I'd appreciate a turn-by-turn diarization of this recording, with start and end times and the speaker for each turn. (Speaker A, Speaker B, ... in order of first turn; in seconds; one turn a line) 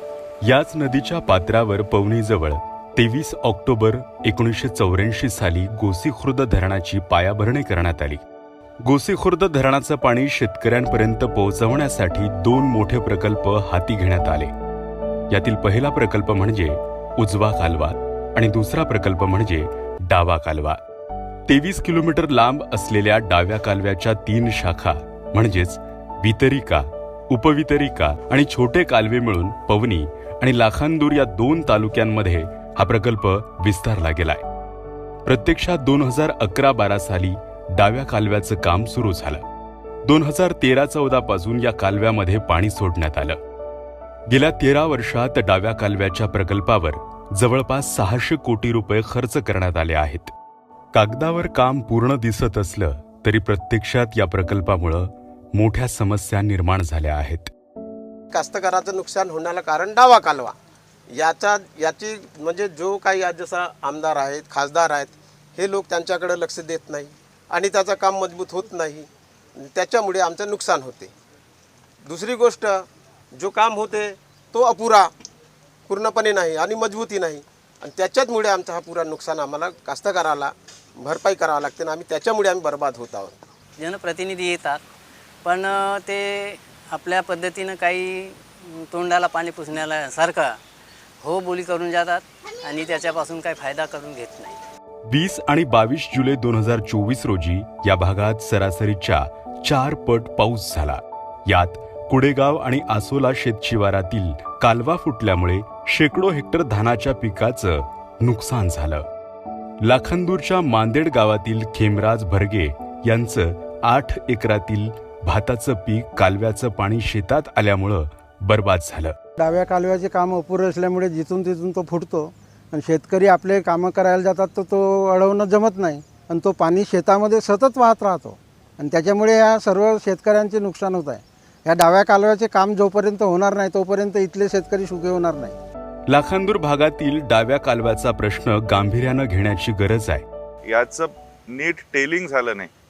Speaker A: 0.4-8.2
Speaker A: 8.8-14.5
Speaker A: 15.3-20.8
Speaker A: 21.5-34.4
Speaker A: 35.2-39.4
Speaker A: 40.0-43.4
Speaker A: 44.3-50.3
Speaker A: 50.9-57.5
Speaker B: 58.3-60.5
Speaker B: 61.1-71.1
Speaker B: 72.0-75.1
Speaker B: 75.9-83.4
Speaker C: 83.8-84.8
Speaker C: 85.4-90.6
Speaker C: 91.2-94.6
Speaker A: 95.1-109.1
Speaker A: 109.8-119.1
Speaker D: 119.4-135.6
Speaker A: 136.1-140.2
Speaker E: 140.7-142.7